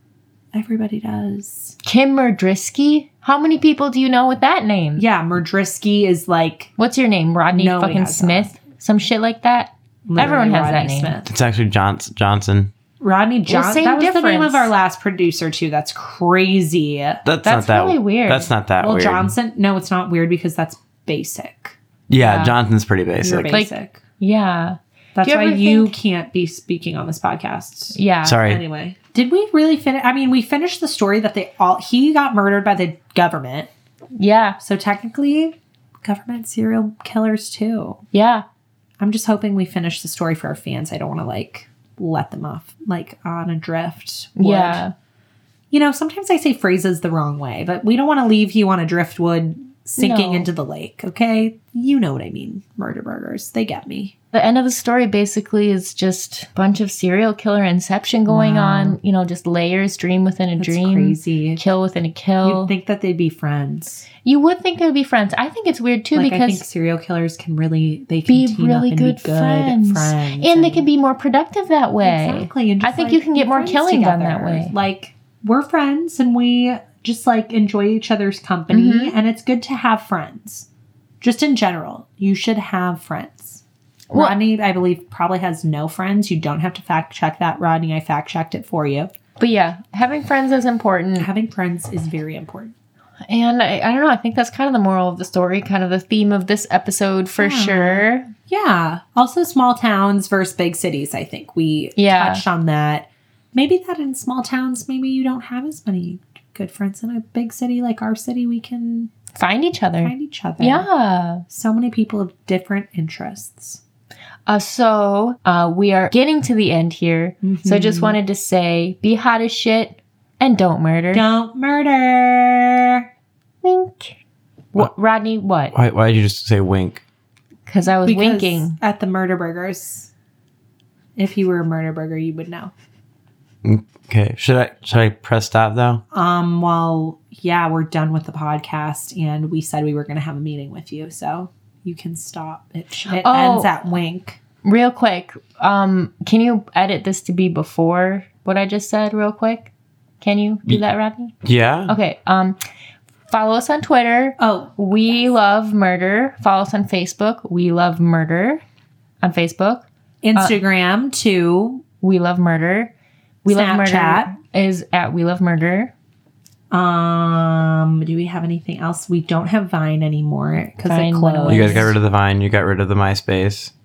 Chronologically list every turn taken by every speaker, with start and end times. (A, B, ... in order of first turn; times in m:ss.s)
0:00.5-0:01.8 A
0:01.8-0:05.0 B
0:05.0-0:06.7 A
0:06.8-0:11.2 B
0:07.5-0:08.5 A
0:10.1-0:11.3 A
0:11.3-0:12.7 C
0:13.0-0:17.2 A
0:13.5-0:14.7 B
0:17.2-0:19.3 C
0:17.4-0:18.5 B
0:18.8-0:21.8 A
0:22.1-0:23.6 C
0:22.2-0:22.6 B
0:23.2-0:24.0 A
0:23.5-0:25.9 B
0:25.2-0:33.7 A
0:27.9-0:28.4 B
0:28.2-0:28.6 C
0:34.2-0:34.6 B
0:34.6-0:38.0 A
0:38.1-0:38.4 B
0:39.0-0:44.8 A
0:44.4-0:44.9 B
0:45.7-0:54.1 A
0:50.0-0:50.5 B
0:54.3-1:02.7 B
0:58.3-0:59.0 A
1:00.6-1:01.6 A
1:02.4-1:04.1 A
1:04.2-1:06.6 B
1:06.2-1:10.9 A
1:08.3-1:14.7 B
1:12.0-1:20.7 A
1:18.7-1:19.2 B
1:21.2-1:29.1 A
1:24.1-1:24.4 B
1:29.4-1:31.3 B
1:31.2-1:32.7 A
1:33.3-1:38.3 B
1:37.4-1:49.1 A
1:42.0-1:42.4 B
1:49.4-1:51.4 B
1:50.0-1:50.9 A
1:51.5-1:53.8 A
1:54.5-2:01.3 B
1:57.4-1:58.2 A
2:01.1-2:03.1 A
2:03.6-2:04.2 B
2:04.7-2:05.7 B
2:05.7-2:07.0 C
2:07.7-2:08.8 B
2:08.0-2:10.1 A
2:11.2-2:12.7 A
2:13.6-2:16.0 C
2:16.1-2:24.4 A
2:23.1-2:23.7 B
2:24.6-2:29.7 B
2:30.2-2:31.4 B
2:31.4-2:32.0 C
2:31.9-2:32.6 B
2:33.3-2:38.6 B
2:34.4-2:34.8 A
2:39.2-2:39.8 B
2:40.2-2:41.8 A
2:42.0-2:42.9 B
2:43.4-2:45.9 B
2:43.5-2:44.3 A
2:46.7-2:51.9 A
2:50.9-2:51.9 B
2:51.5-2:53.7 C